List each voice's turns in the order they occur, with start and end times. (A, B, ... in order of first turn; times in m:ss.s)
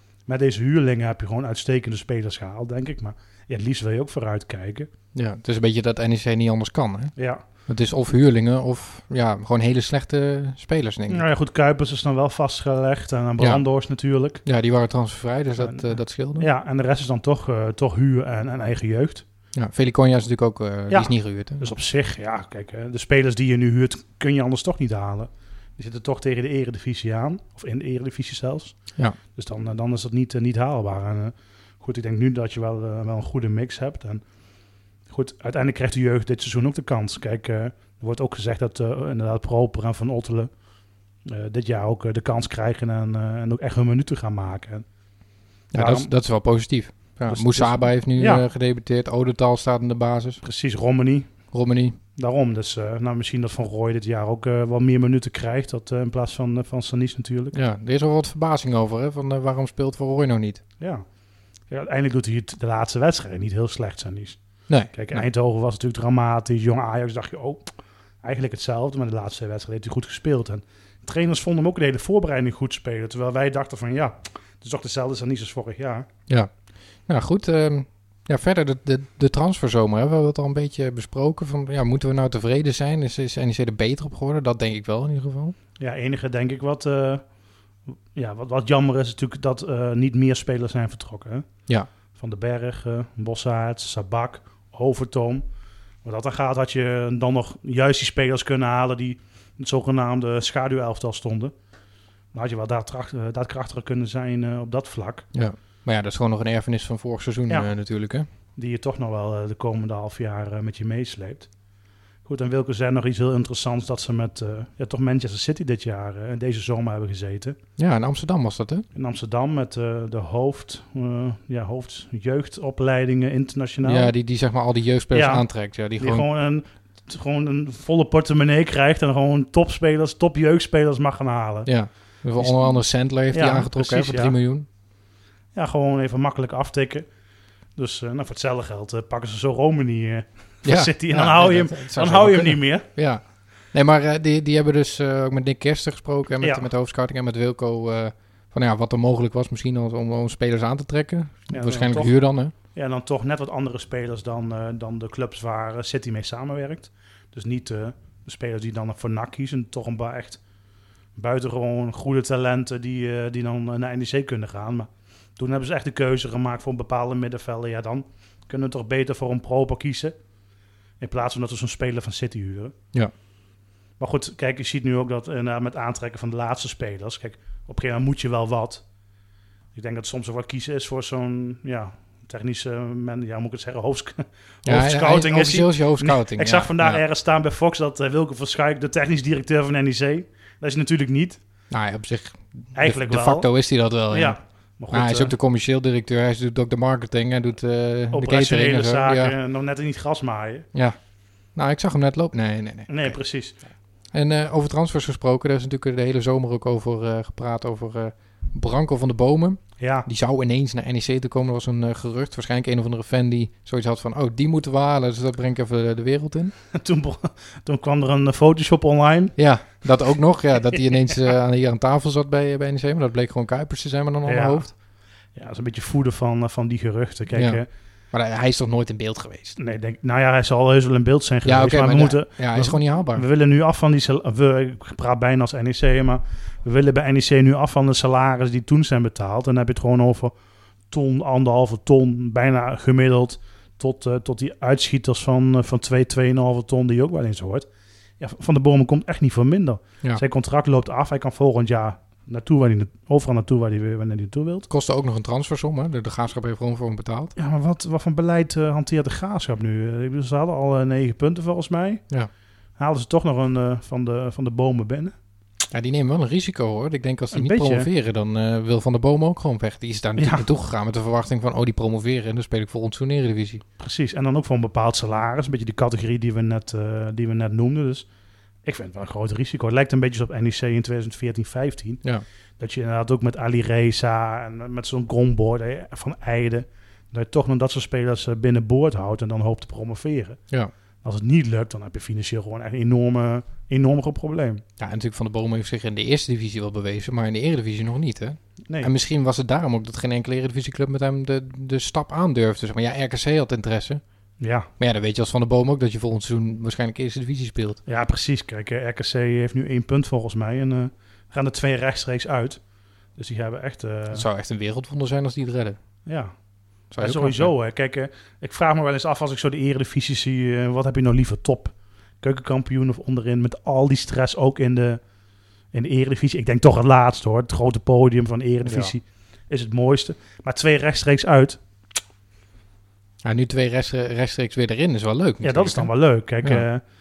0:00.2-0:04.9 A
0:05.1-0:11.2 B
0:07.2-0:07.4 A
0:11.1-0:14.4 A
0:13.4-0:13.6 B
0:14.4-0:16.5 B
0:15.6-0:19.2 A
0:19.5-0:21.7 B
0:20.9-0:40.5 A
0:41.2-0:44.9 A
0:45.7-0:46.1 A
0:45.7-0:50.4 B
0:47.3-0:48.4 A
0:50.4-0:51.5 A
0:51.5-0:52.0 B
0:52.2-0:57.6 A
0:57.5-1:00.6 B
1:00.8-1:01.1 A
1:01.6-1:16.0 A
1:04.7-1:05.3 B
1:16.3-1:25.5 B
1:25.8-1:27.4 A
1:28.1-1:35.4 A
1:36.0-1:41.5 A
1:42.3-1:45.3 A
1:45.3-1:48.3 B
1:48.5-1:51.5 A
1:52.2-1:57.6 A
1:57.8-1:58.8 B
1:58.9-2:04.1 A
2:03.8-2:06.2 B
2:05.1-2:14.4 A
2:11.6-2:14.7 B
2:15.5-2:17.1 A
2:17.7-2:22.8 A
2:20.6-2:32.5 B
2:26.4-2:26.7 A
2:31.5-2:40.4 A
2:41.1-2:50.1 A
2:51.0-2:52.7 A
2:54.0-2:58.9 A
2:59.7-3:11.4 A
3:04.6-3:07.0 B
3:11.7-3:19.4 B
3:12.7-3:15.3 A
3:18.1-3:20.7 A
3:20.7-3:36.5 B
3:22.9-3:23.6 A
3:29.8-3:30.1 A
3:36.7-3:39.8 A
3:39.4-3:44.7 B
3:40.6-3:41.2 A
3:44.2-3:44.8 A
3:45.3-3:47.6 A
3:47.3-3:49.6 B
3:49.6-4:00.3 A
3:51.4-3:53.2 B
4:00.9-4:07.7 A
4:08.2-4:14.7 A
4:14.7-4:17.3 B
4:17.4-4:22.2 A
4:22.8-4:25.1 A
4:25.7-4:33.6 B
4:27.3-4:27.9 A
4:30.2-4:30.4 A
4:33.8-4:38.0 A
4:38.6-4:50.5 A
4:51.0-4:54.6 A
4:54.8-5:04.0 B
5:04.4-5:04.7 A
5:04.8-5:07.8 B
5:07.8-5:14.2 A
5:14.1-5:15.8 B
5:16.0-5:25.0 A
5:16.9-5:17.5 B
5:25.7-5:31.7 A
5:28.6-5:29.0 B
5:33.2-5:36.6 B
5:35.4-5:36.8 A